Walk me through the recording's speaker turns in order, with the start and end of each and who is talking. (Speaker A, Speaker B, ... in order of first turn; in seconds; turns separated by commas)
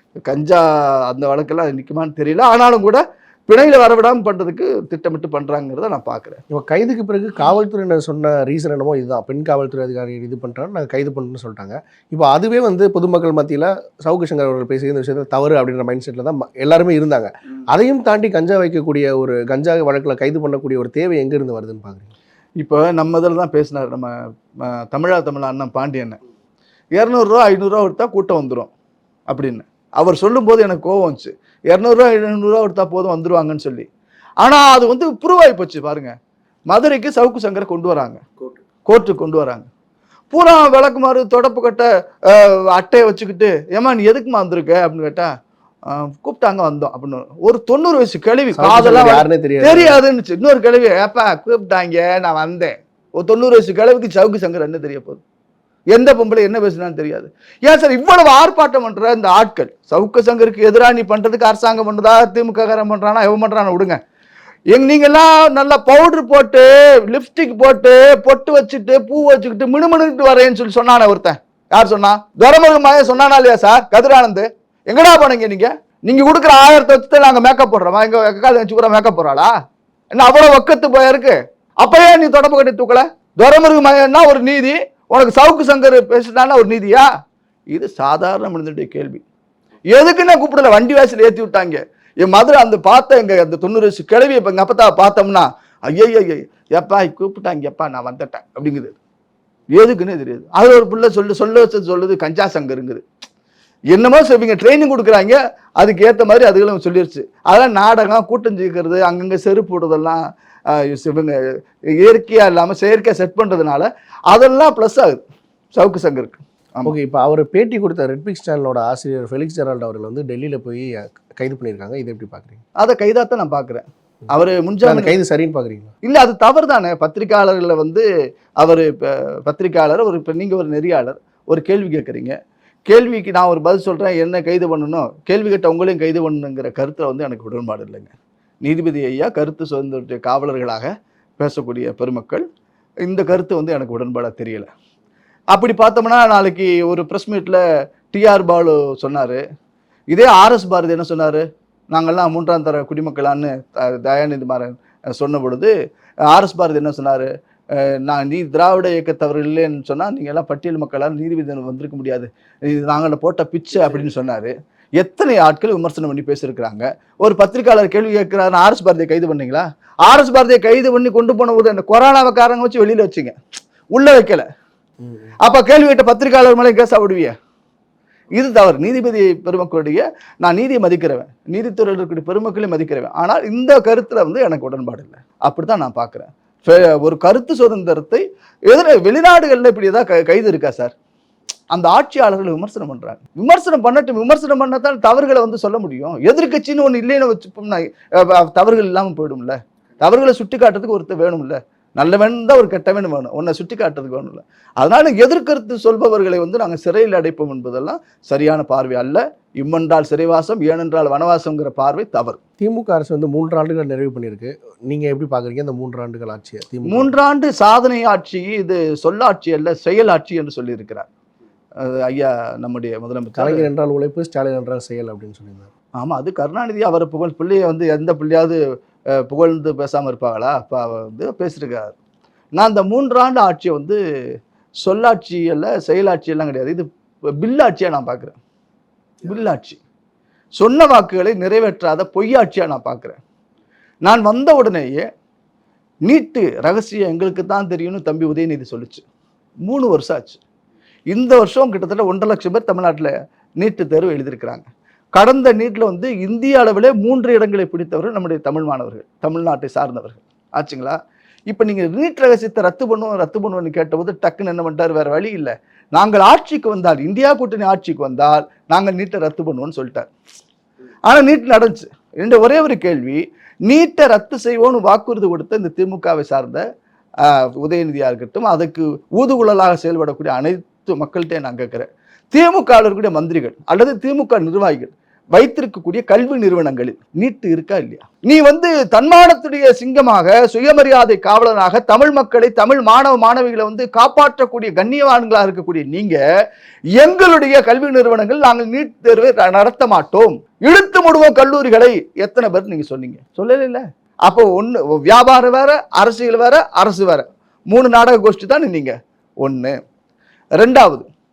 Speaker A: 0.3-6.4, Speaker B: 6.5-22.1, Speaker A: 22.6-24.1, Speaker A: 24.6-26.2, Speaker A: 27.0-28.7, Speaker A: 29.3-33.9, Speaker A: 34.4-36.1, Speaker A: 36.7-38.2, Speaker A: 38.9-39.7, Speaker A: 40.3-45.3, Speaker A: 45.9-55.2, Speaker B: 48.6-50.0, Speaker A: 55.9-64.0, Speaker A: 64.7-79.5, Speaker A: 80.1-87.1, Speaker A: 87.7-89.2, Speaker A: 89.9-99.0, Speaker A: 99.7-103.0, Speaker A: 103.9-111.4, Speaker A: 112.0-115.2, Speaker A: 115.8-117.0, Speaker B: 116.8-122.6, Speaker A: 122.8-125.1, Speaker B: 124.8-125.9, Speaker A: 126.0-128.1, Speaker A: 128.6-132.4, Speaker A: 132.9-142.4, Speaker A: 143.1-144.7, Speaker A: 145.5-149.4, Speaker A: 150.1-155.7, Speaker A: 156.3-173.4, Speaker A: 173.9-174.5, Speaker B: 175.0-175.3, Speaker A: 175.4-177.3, Speaker A: 178.3-190.9, Speaker A: 191.7-212.4, Speaker B: 212.6-217.1, Speaker A: 216.9-221.1, Speaker A: 221.8-223.7, Speaker B: 223.4-225.7, Speaker A: 226.0-228.6, Speaker A: 229.1-231.9, Speaker A: 232.6-234.0, Speaker A: 234.8-236.9, Speaker A: 237.4-238.4, Speaker A: 239.2-239.8, Speaker A: 240.6-243.2, Speaker A: 244.1-245.1, Speaker A: 246.1-249.0, Speaker A: 249.7-250.4, Speaker A: 251.1-270.1, Speaker A: 271.1-276.6, Speaker A: 277.2-296.2, Speaker A: 297.0-309.8, Speaker A: 310.6-311.1